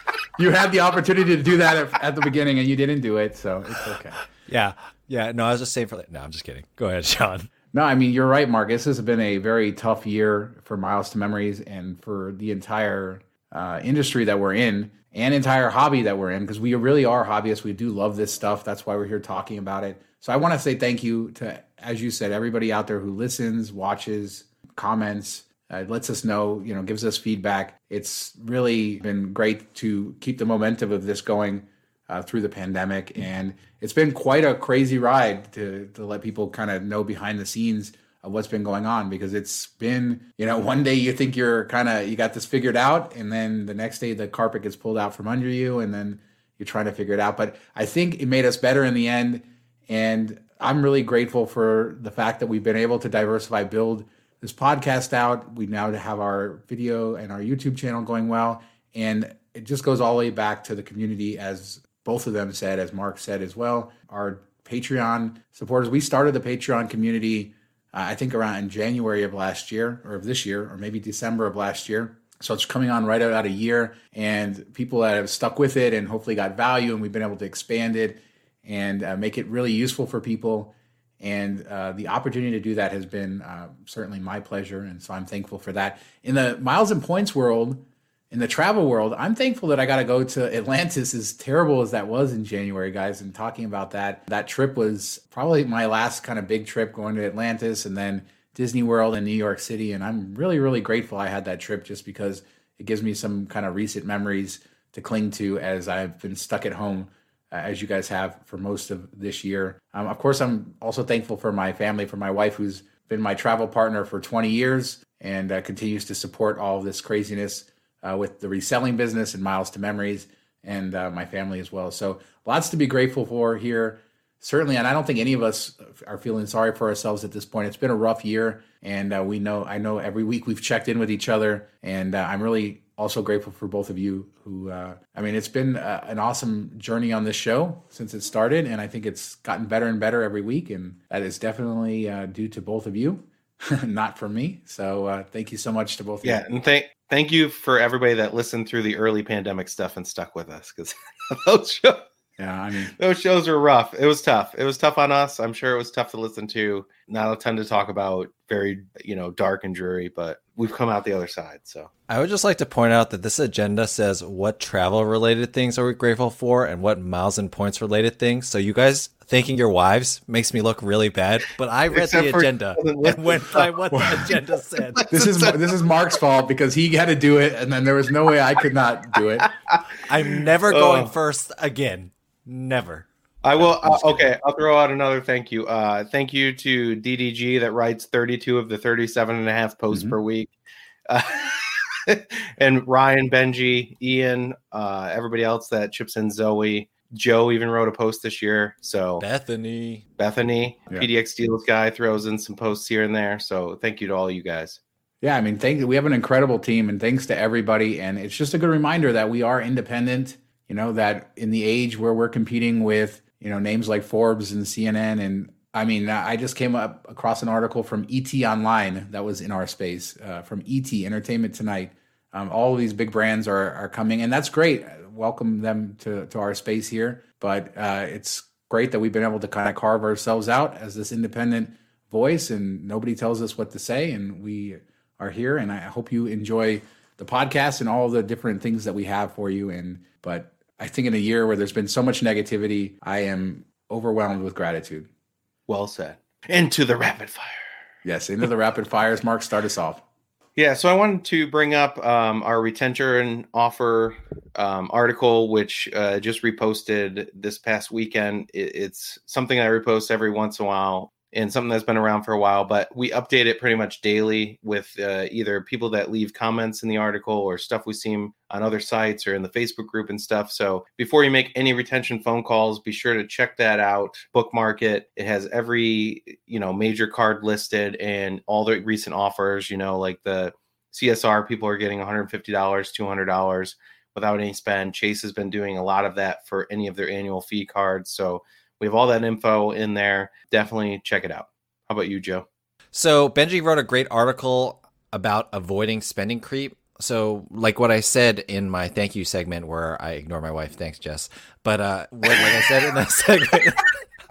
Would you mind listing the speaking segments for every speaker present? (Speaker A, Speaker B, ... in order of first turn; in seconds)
Speaker A: 0.4-4.2, 7.7-146.4, 152.4-152.9, 173.9-174.3, 175.1-179.5, 205.2-245.1, 248.0-250.0
Speaker B: 4.5-7.5, 162.1-175.1, 180.0-184.2, 199.2-200.0, 292.9-304.0
Speaker C: 146.2-152.1, 153.0-161.9, 171.9-173.7, 174.9-175.7, 179.4-179.9, 180.7-181.1, 183.4-190.5, 191.1-199.2, 200.2-204.8, 245.7-247.6, 250.6-292.4